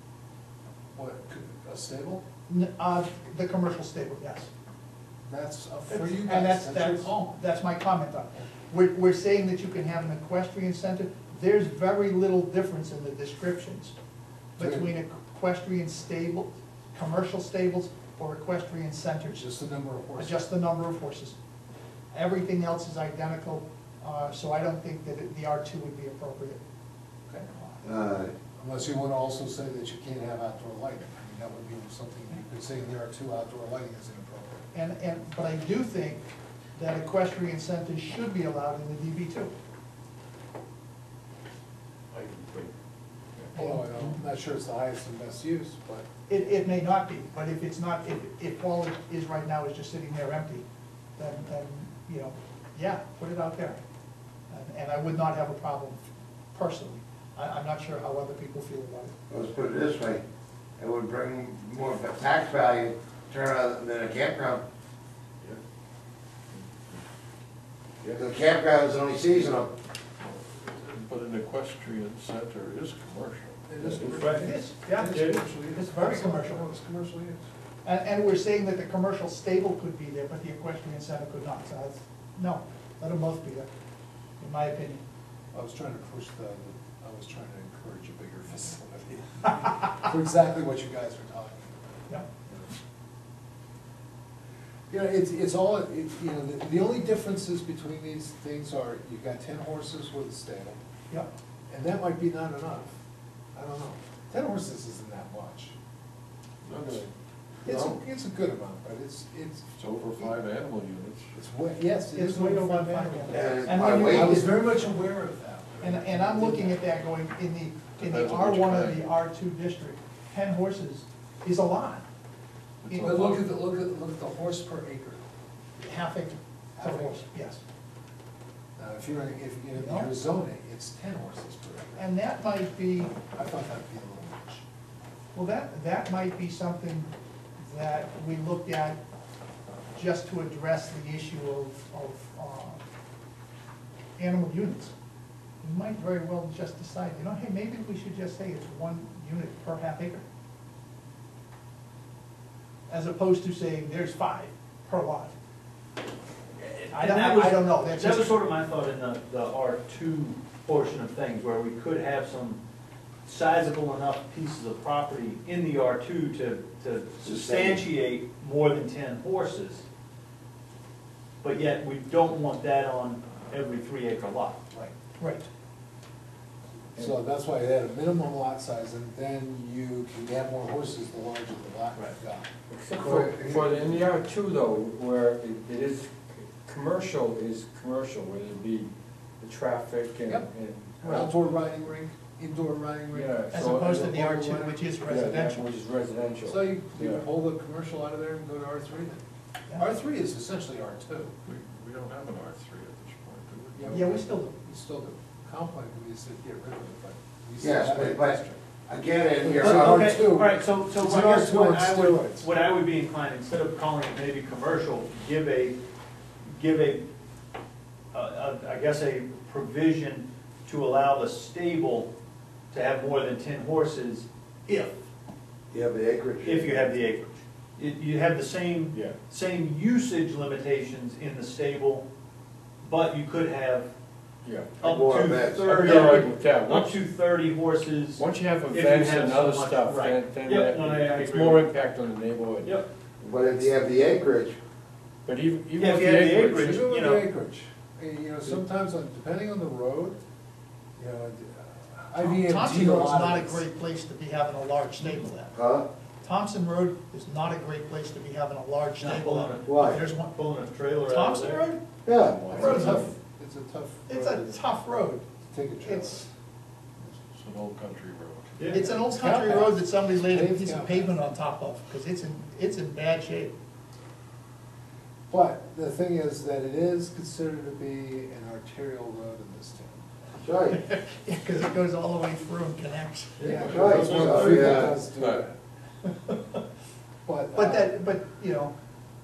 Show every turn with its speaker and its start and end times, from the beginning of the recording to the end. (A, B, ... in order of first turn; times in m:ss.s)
0:00.9-0:02.2 A
0:02.5-0:04.5 B
0:05.3-0:07.3 A
0:05.9-0:14.0 B
0:14.6-0:19.4 B
0:14.6-0:14.9 A
0:19.4-0:20.4 A
0:20.2-0:21.4 B
0:22.1-0:26.6 B
0:27.5-0:27.8 B
0:27.8-0:28.3 C
0:28.6-0:34.6 A
0:34.7-0:39.5 B
0:42.1-0:42.7 D
0:43.5-0:46.1 A
0:43.6-0:44.2 B
0:46.3-0:50.6 B
0:51.2-0:53.8 B
0:54.5-0:56.0 B
0:56.5-0:59.1 B
0:59.3-1:00.2 C
1:00.8-1:04.6 C
1:08.2-1:09.7 C
1:10.2-1:13.6 D
1:13.7-1:17.4 A
1:13.8-1:14.3 E
1:14.0-1:15.4 F
1:14.2-1:15.2 B
1:15.7-1:16.7 B
1:17.8-1:23.7 B
1:24.4-1:25.0 B
1:25.5-1:31.8 A
1:34.9-1:40.8 A
1:41.7-1:43.0 A
1:43.5-1:45.7 A
1:46.6-1:47.1 D
1:47.6-1:49.7 A
1:47.7-1:48.0 D
1:49.8-1:51.3 D
1:51.4-1:56.8 A
1:52.1-1:54.6 B
1:53.3-1:54.4 C
1:55.8-2:02.0 B
1:58.0-1:59.1 D
2:02.8-2:03.5 D
2:02.9-2:05.2 A
2:05.8-2:07.6 B
2:06.8-2:07.2 A
2:08.8-2:12.0 A
2:09.8-2:10.1 B
2:12.0-2:13.2 B
2:13.3-2:14.6 A
2:15.3-2:19.0 B
2:20.0-2:22.8 B
2:24.2-2:24.9 B
2:25.6-2:30.2 B
2:32.9-2:35.4 B
2:36.6-2:42.6 F
2:36.9-2:38.3 B
2:43.3-2:49.8 F
2:47.2-2:47.8 C
2:51.4-2:54.6 F
2:55.2-2:55.5 B
2:57.0-3:03.9 A
3:02.7-3:11.3 E
3:11.0-3:11.3 B
3:11.0-3:14.8 A
3:13.1-3:17.2 E
3:13.5-3:15.8 B
3:16.4-3:19.2 A
3:19.8-3:21.3 A
3:21.4-3:23.9 D
3:23.8-3:28.6 A
3:23.9-3:24.6 B
3:27.6-3:30.3 C
3:29.4-3:32.5 A
3:29.6-3:35.8 F
3:36.4-3:37.1 F
3:38.1-3:42.1 F
3:42.7-3:45.0 F
3:45.7-3:46.8 C
3:46.4-3:52.1 F
3:48.9-3:49.2 E
3:52.8-3:53.9 F
3:54.4-3:54.8 E
3:54.8-4:01.6 F
3:54.8-3:55.9 C
3:55.6-3:57.0 E
3:58.2-4:02.8 E
4:02.6-4:02.9 F
4:03.2-4:04.6 C
4:05.2-4:06.8 E
4:05.8-4:07.2 F
4:06.6-4:10.2 A
4:11.0-4:13.6 A
4:12.2-4:15.5 B
4:15.5-4:15.9 C
4:16.2-4:20.3 B
4:19.0-4:21.7 F
4:19.7-4:20.0 C
4:21.0-4:21.8 B
4:22.1-4:22.9 C
4:22.4-4:24.6 A
4:22.5-4:23.1 B
4:24.1-4:25.2 B
4:25.4-4:26.3 A
4:25.8-4:26.3 B
4:27.0-4:27.2 A
4:27.4-4:28.7 D
4:28.6-4:28.9 F
4:28.7-4:33.5 B
4:29.0-4:31.2 A
4:35.3-4:40.1 A
4:40.4-4:40.8 C
4:40.7-4:43.4 B
4:43.4-4:45.5 A
4:43.5-4:45.4 D
4:43.7-4:45.0 C
4:47.2-4:47.9 A
4:47.6-4:48.7 B